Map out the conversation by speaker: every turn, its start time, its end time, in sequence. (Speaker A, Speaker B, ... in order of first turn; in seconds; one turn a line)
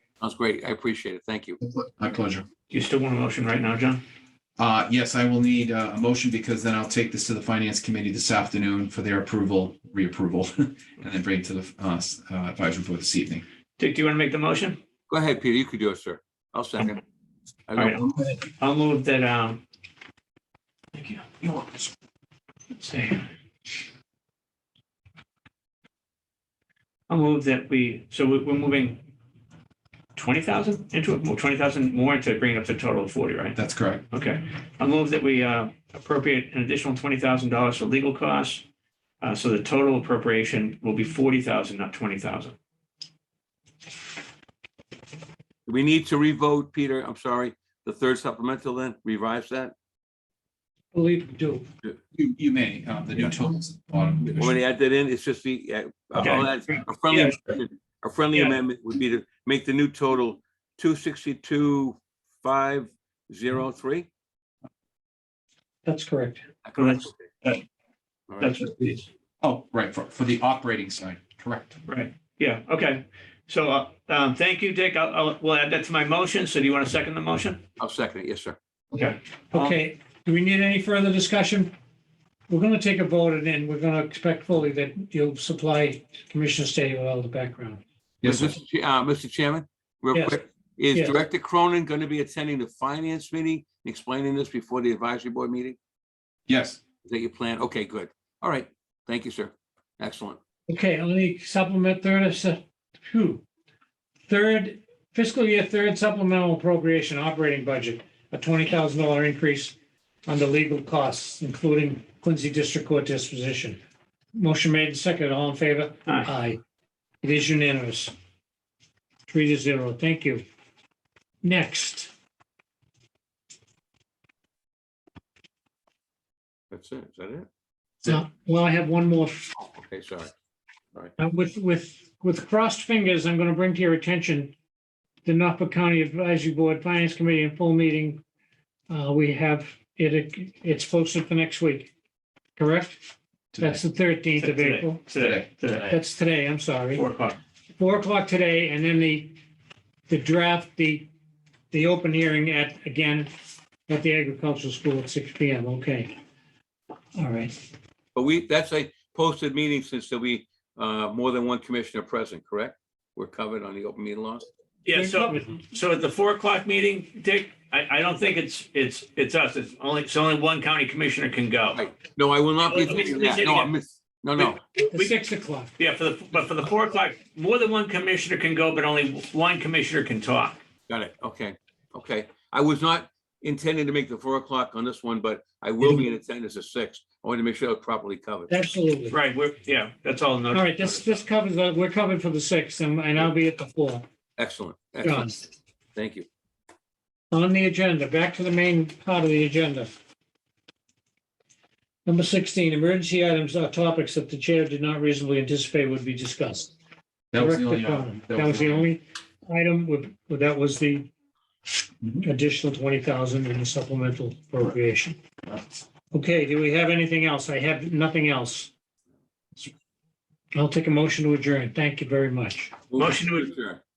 Speaker A: 0.2-1.6
Speaker B: 1.6-2.5
Speaker C: 2.7-4.0
Speaker B: 4.6-13.4
Speaker C: 13.8-14.8
Speaker A: 15.1-17.0
Speaker A: 17.7-18.1
Speaker C: 17.8-19.6
Speaker C: 20.9-21.9
Speaker C: 22.7-23.2
Speaker C: 27.1-29.0
Speaker C: 30.2-33.6
Speaker B: 33.6-34.1
Speaker C: 34.1-38.6
Speaker C: 39.2-42.6
Speaker A: 45.7-49.7
Speaker D: 50.9-51.7
Speaker B: 52.1-54.5
Speaker A: 54.3-64.1
Speaker C: 56.2-57.4
Speaker D: 65.8-66.4
Speaker A: 66.7-67.3
Speaker C: 66.8-67.6
Speaker A: 68.3-68.7
Speaker C: 68.4-69.1
Speaker B: 69.4-71.8
Speaker C: 71.9-77.6
Speaker A: 77.8-78.6
Speaker C: 78.9-79.8
Speaker D: 79.5-81.7
Speaker D: 82.5-87.8
Speaker B: 88.2-88.5
Speaker A: 88.2-95.8
Speaker D: 90.1-90.4
Speaker D: 90.9-91.2
Speaker B: 96.5-96.8
Speaker A: 97.0-100.4
Speaker D: 100.7-103.4
Speaker D: 104.3-113.8
Speaker D: 114.3-116.6
Speaker D: 117.2-118.1
Speaker D: 119.3-120.4
Speaker D: 121.4-122.1
Speaker A: 126.7-127.5
Speaker D: 128.1-129.5
Speaker A: 129.6-130.3
Speaker D: 131.2-134.6
Speaker D: 135.2-138.2
Speaker D: 138.9-141.9
Speaker D: 142.6-143.0
Speaker B: 143.5-143.8
Speaker D: 143.6-145.0
Speaker C: 144.4-146.0
Speaker B: 145.2-145.5
Speaker D: 145.9-147.1
Speaker C: 146.9-147.4
Speaker D: 147.7-149.4
Speaker D: 150.1-151.1
Speaker D: 151.7-153.3
Speaker D: 153.9-156.1
Speaker D: 157.2-157.6
Speaker A: 158.2-164.4
Speaker C: 164.8-171.9
Speaker D: 164.9-165.6
Speaker A: 171.7-174.6
Speaker C: 172.7-173.7
Speaker C: 174.4-175.2
Speaker D: 174.9-175.7
Speaker C: 175.8-180.6
Speaker A: 180.9-188.6
Speaker D: 188.5-189.2
Speaker C: 189.1-191.2
Speaker D: 190.5-194.1
Speaker A: 194.4-195.4
Speaker D: 195.0-195.5
Speaker A: 195.9-196.3
Speaker D: 197.3-199.9
Speaker D: 202.1-206.7
Speaker B: 207.3-208.9
Speaker D: 207.3-211.1
Speaker D: 212.2-215.2
Speaker D: 216.1-218.7
Speaker D: 220.5-222.8
Speaker A: 222.9-223.8
Speaker C: 223.0-223.5